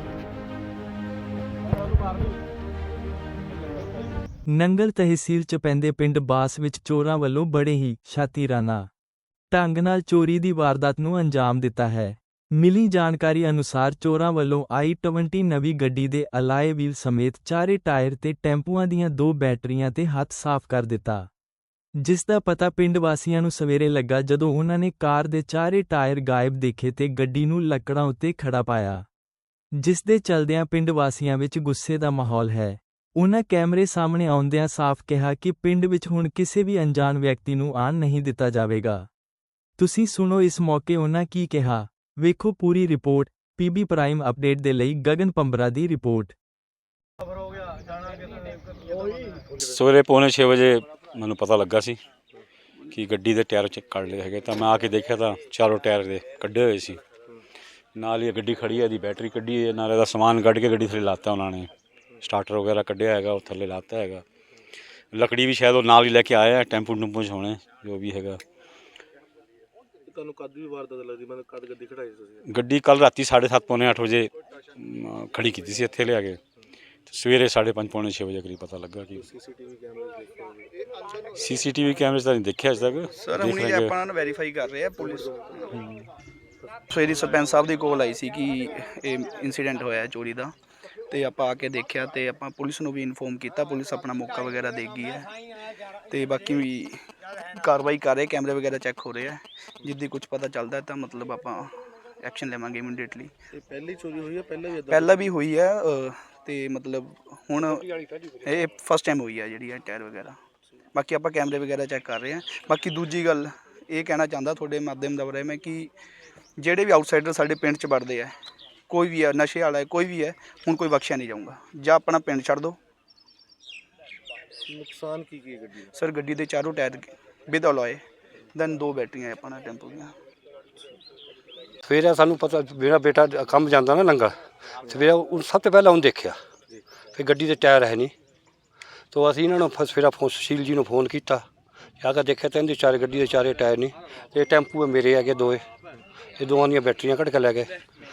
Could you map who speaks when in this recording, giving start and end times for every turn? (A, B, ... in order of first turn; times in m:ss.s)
0:04.5-0:08.9 A
0:09.5-0:21.3 A
0:22.0-0:29.1 A
0:29.7-0:39.1 A
0:39.8-0:46.4 A
0:49.6-0:52.0 B
0:52.9-0:57.0 B
0:58.0-1:01.7 B
1:02.2-1:04.2 B
1:05.1-1:08.4 B
1:10.1-1:12.4 C
1:12.5-1:16.4 B
1:17.1-1:19.2 B
1:19.2-1:20.7 C
1:21.3-1:24.0 B
1:23.2-1:25.3 D
1:25.0-1:25.9 C
1:26.9-1:30.5 D
1:31.1-1:35.3 D
1:36.1-1:43.3 D
1:43.5-1:45.4 C
1:44.9-1:47.9 D
1:48.4-1:50.4 D
1:50.9-1:55.9 D
1:56.6-1:58.3 D
1:58.9-2:02.8 D
2:04.7-2:05.9 C
2:06.0-2:08.0 D
2:08.5-2:10.2 D
2:11.8-2:16.4 E
2:17.1-2:18.1 E
2:19.1-2:21.5 E
2:22.0-2:25.6 E
2:26.4-2:27.7 E